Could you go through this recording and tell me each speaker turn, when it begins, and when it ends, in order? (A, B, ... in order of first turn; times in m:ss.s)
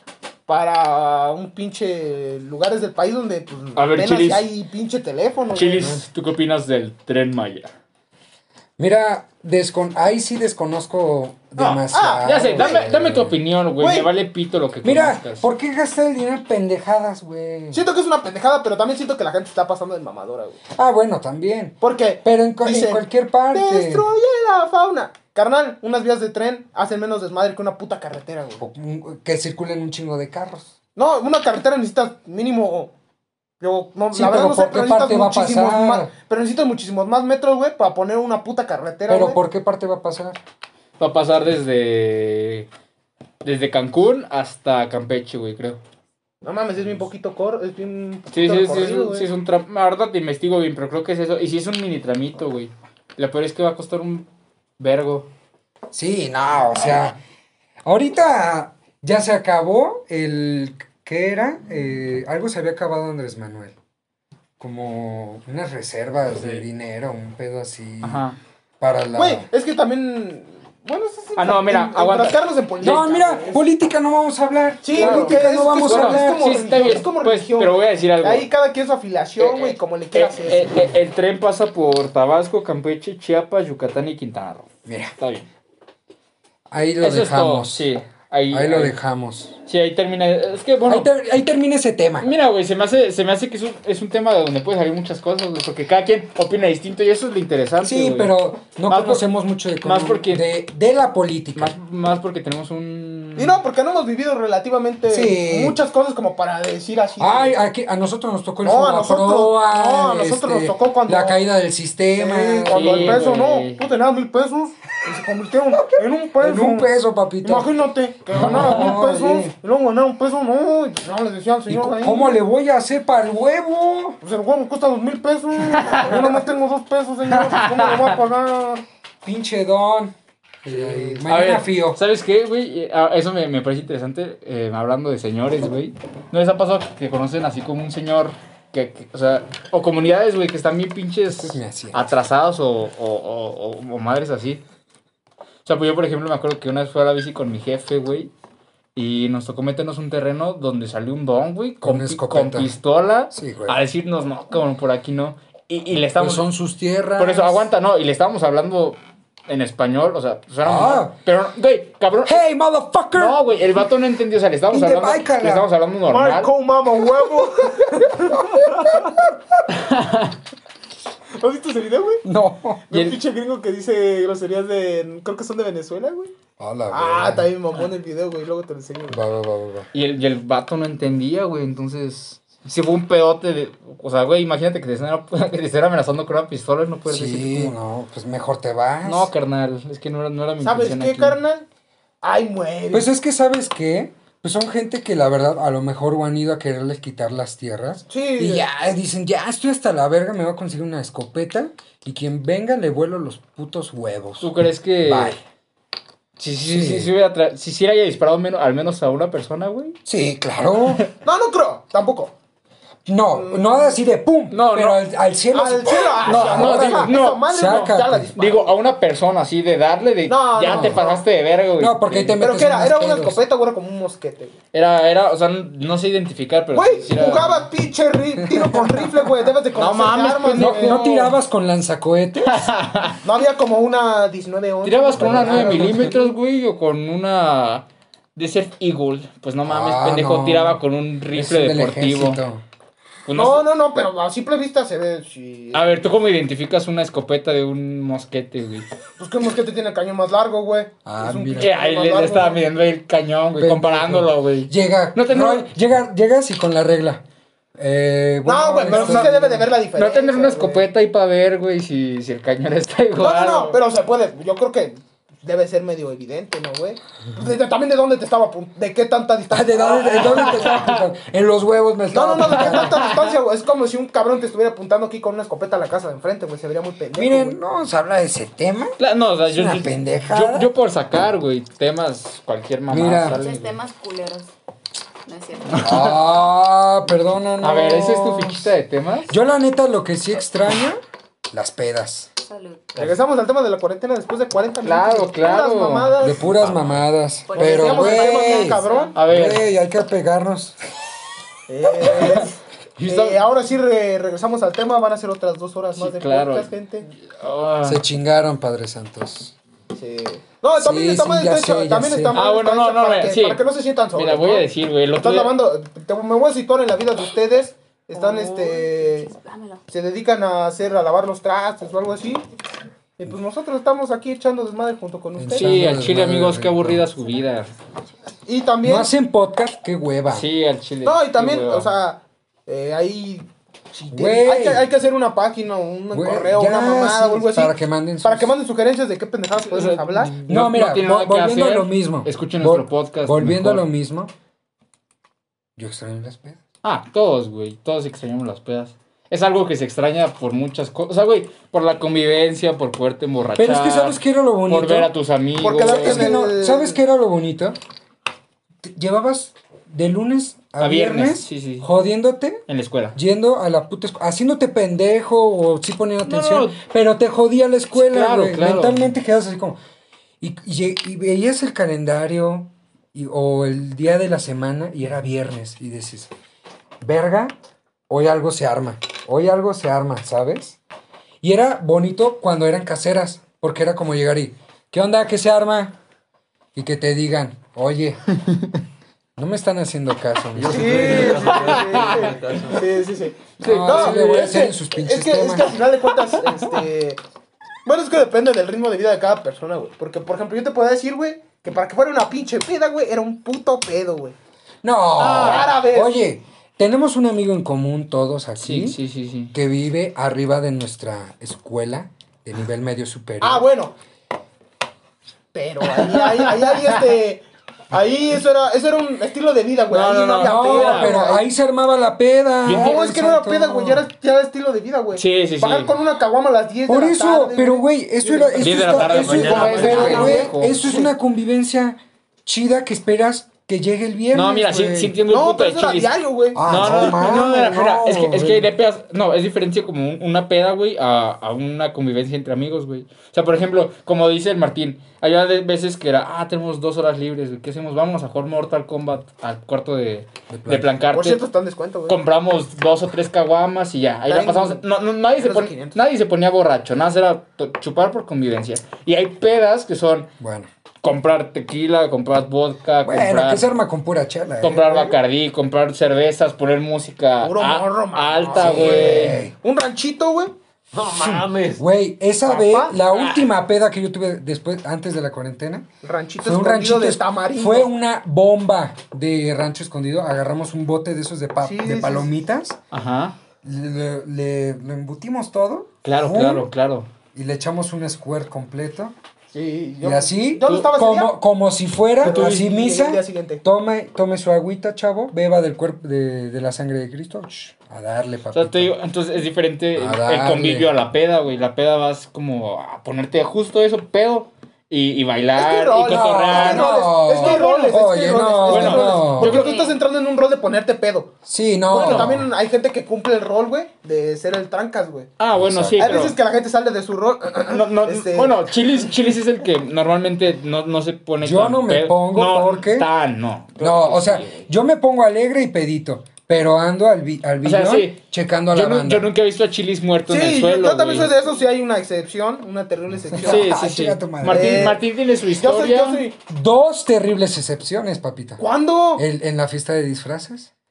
0:00.5-0:06.0 A
0:03.8-0:04.5 B
0:05.5-0:07.7 B
0:05.8-0:06.0 C
0:08.8-0:13.4 C
0:11.6-0:15.5 B
0:11.9-0:12.9 A
0:13.8-0:14.1 A
0:14.8-0:17.8 C
0:17.7-0:20.6 A
0:20.7-0:24.1 C
0:21.8-0:28.6 A
0:28.6-0:30.7 C
0:31.0-0:32.9 A
0:33.6-0:39.4 A
0:34.1-0:36.1 C
0:39.1-0:40.4 C
0:41.0-0:42.7 B
0:43.4-0:45.8 B
0:46.4-0:49.3 A
0:48.3-0:54.3 B
0:54.8-0:55.3 B
0:55.9-0:57.2 C
0:57.8-1:03.7 C
1:04.6-1:08.2 C
1:06.4-1:06.6 D
1:08.0-1:08.4 B
1:08.8-1:09.5 C
1:09.1-1:13.6 A
1:11.4-1:13.0 B
1:12.8-1:16.6 C
1:14.8-1:20.9 A
1:15.0-1:18.5 B
1:19.4-1:25.5 B
1:24.8-1:25.1 C
1:26.7-1:27.9 C
1:27.0-1:29.0 B
1:28.5-1:29.6 C
1:29.7-1:31.1 B
1:30.9-1:32.3 C
1:32.2-1:38.3 B
1:37.8-1:41.7 C
1:38.9-1:39.2 B
1:39.8-1:40.4 B
1:41.5-1:43.6 B
1:43.4-1:47.6 A
1:45.1-1:45.8 C
1:47.2-1:53.2 C
1:48.6-1:51.4 A
1:52.2-2:02.4 A
1:52.7-1:53.8 B
1:55.7-1:57.7 C
1:58.3-1:59.5 C
1:58.3-1:59.0 B
2:01.7-2:04.2 C
2:04.2-2:08.8 A
2:05.7-2:06.3 B
2:07.3-2:08.2 B
2:09.2-2:12.0 C
2:10.8-2:11.2 A
2:11.2-2:24.6 B
2:21.4-2:22.1 C
2:25.6-2:28.3 B
2:28.9-2:36.4 B
2:31.8-2:32.8 C
2:33.3-2:33.8 C
2:36.2-2:37.7 C
2:37.2-2:42.4 B
2:40.6-2:41.2 C
2:42.2-2:43.4 C
2:43.1-2:46.5 B
2:44.7-2:45.7 C
2:46.1-2:49.2 A
2:48.5-2:49.3 C
2:49.7-2:50.4 B
2:51.4-2:52.2 A
2:52.2-2:52.8 C
2:52.9-2:56.3 A
2:56.6-2:57.5 C
2:56.9-2:59.2 A
2:59.1-2:59.9 C
2:59.9-3:07.7 B
3:07.1-3:09.3 C
3:09.0-3:11.4 B
3:10.6-3:11.6 A
3:12.2-3:13.1 A
3:12.9-3:24.5 C
3:18.1-3:18.7 A
3:24.4-3:25.4 B
3:25.0-3:25.4 C
3:26.4-3:30.0 B
3:26.6-3:27.1 C
3:30.0-3:31.0 C
3:31.2-3:32.3 A
3:33.0-3:38.3 C
3:33.3-3:34.0 A
3:34.5-3:35.0 B
3:35.5-3:38.7 A
3:36.2-3:42.4 B
3:40.3-3:41.2 A
3:40.6-3:41.0 C
3:41.8-3:43.4 C
3:42.4-3:44.5 A
3:44.7-3:47.7 B
3:46.7-3:51.3 A
3:48.5-3:49.1 C
3:49.7-3:51.2 B
3:50.5-3:52.7 C
3:52.4-3:53.2 B
3:53.2-3:56.2 A
3:54.8-3:57.8 B
3:55.2-3:56.2 C
3:58.4-4:02.4 B
3:59.6-4:00.8 C
4:01.3-4:02.6 C
4:03.2-4:03.6 B
4:03.3-4:06.0 A
4:05.7-4:08.8 B
4:09.2-4:12.6 A
4:11.0-4:11.7 C
4:11.6-4:15.7 B
4:13.5-4:17.2 C
4:17.8-4:19.6 C
4:18.4-4:20.8 A
4:18.9-4:23.8 B
4:23.2-4:30.7 A
4:29.5-4:33.0 C
4:30.2-4:31.0 B
4:32.1-4:37.6 A
4:32.5-4:33.3 B
4:37.1-4:39.0 C
4:39.0-4:43.8 B
4:39.5-4:40.7 C
4:42.9-4:43.4 C
4:43.3-4:44.5 E
4:45.2-4:45.9 E
4:45.7-4:46.1 B
4:45.8-4:48.7 C
4:47.6-4:49.3 B
4:49.3-4:51.0 C
4:51.5-4:52.3 C
4:52.4-4:52.9 E
4:53.0-4:56.5 A
4:54.8-4:56.2 B
4:56.2-5:00.8 C
4:56.4-4:57.0 D
4:57.5-4:59.2 E
4:57.5-4:59.2 A
4:59.1-4:59.6 B
5:01.7-5:07.1 A
5:02.2-5:02.4 B
5:03.0-5:03.4 B
5:05.9-5:06.7 B
5:07.2-5:08.0 B
5:07.8-5:09.5 C
5:09.9-5:19.3 A
5:10.8-5:12.4 C
5:12.3-5:15.6 B
5:18.1-5:19.8 E
5:19.9-5:22.4 A
5:23.2-5:25.8 A
5:25.4-5:27.0 C
5:25.5-5:27.7 B
5:28.4-5:29.1 A
5:28.8-5:30.5 C
5:30.3-5:31.9 B
5:31.0-5:40.3 A
5:34.1-5:34.9 C
5:36.1-5:38.5 C
5:39.7-5:43.8 B
5:40.5-5:44.3 C
5:45.8-5:46.6 C
5:46.8-5:56.4 B
5:53.6-5:55.1 C
5:55.6-5:57.0 A
5:55.7-5:57.8 C
5:58.8-6:09.8 C
6:00.8-6:01.9 B
6:02.7-6:03.2 B
6:06.2-6:06.8 B
6:07.9-6:09.0 B
6:10.4-6:16.3 C
6:17.0-6:17.5 C
6:18.1-6:20.8 C
6:21.4-6:25.9 C
6:26.7-6:28.2 C
6:29.4-6:31.4 C
6:30.5-6:32.8 D
6:30.7-6:37.2 A
6:31.3-6:32.3 B
6:33.6-6:34.5 B
6:33.6-6:35.8 C
6:37.8-6:44.4 A
6:44.8-6:49.0 C
6:45.2-6:45.7 B
6:45.3-6:46.2 A
6:48.6-6:49.5 B
6:49.5-6:53.6 C
6:53.4-6:53.9 A
6:55.5-7:01.4 A
6:56.0-6:57.0 B
6:59.9-7:01.2 B
7:00.4-7:04.0 C
7:02.6-7:03.0 B
7:02.7-7:11.1 A
7:05.1-7:05.9 B
7:06.9-7:15.1 C
7:08.6-7:10.8 B
7:09.0-7:10.4 D
7:14.3-7:31.4 B
7:15.3-7:17.3 A
7:16.5-7:18.7 C
7:30.5-7:30.9 C
7:31.1-7:32.2 A
7:32.1-7:40.3 B
7:34.3-7:34.8 A
7:35.3-7:36.0 A
7:40.4-7:40.7 C
7:41.0-7:43.6 B
7:43.0-7:45.1 C
7:44.6-7:49.4 B
7:47.4-7:50.5 A
7:48.5-7:49.5 C
7:50.9-7:51.8 D
7:51.1-7:55.9 C
7:52.4-7:53.0 A
7:53.1-7:53.5 B
7:56.0-7:57.9 A
7:56.4-8:02.8 C
8:01.6-8:02.4 A
8:02.9-8:03.4 B
8:03.6-8:06.7 C
8:06.0-8:07.1 B
8:07.3-8:09.1 C
8:09.5-8:11.4 A
8:10.0-8:18.9 C
8:12.2-8:13.6 A
8:12.2-8:12.7 B
8:18.5-8:28.0 B
8:19.9-8:20.9 C
8:25.5-8:31.3 A
8:26.0-8:29.6 C
8:28.6-8:29.7 B
8:29.4-8:30.0 E
8:31.4-8:32.5 C
8:31.9-8:35.3 A
8:32.0-8:32.3 B
8:35.4-8:36.4 B
8:35.5-8:36.1 C
8:36.0-8:38.6 A
8:37.7-8:44.6 B
8:41.4-8:43.1 C
8:43.8-8:49.3 C
8:47.6-8:51.3 B
8:50.3-8:53.7 A
8:53.3-8:55.0 C
8:53.4-8:56.2 B
8:54.4-8:55.0 A
8:55.6-8:56.4 A
8:56.5-8:58.6 C
8:58.6-8:59.2 A
8:59.2-9:00.7 C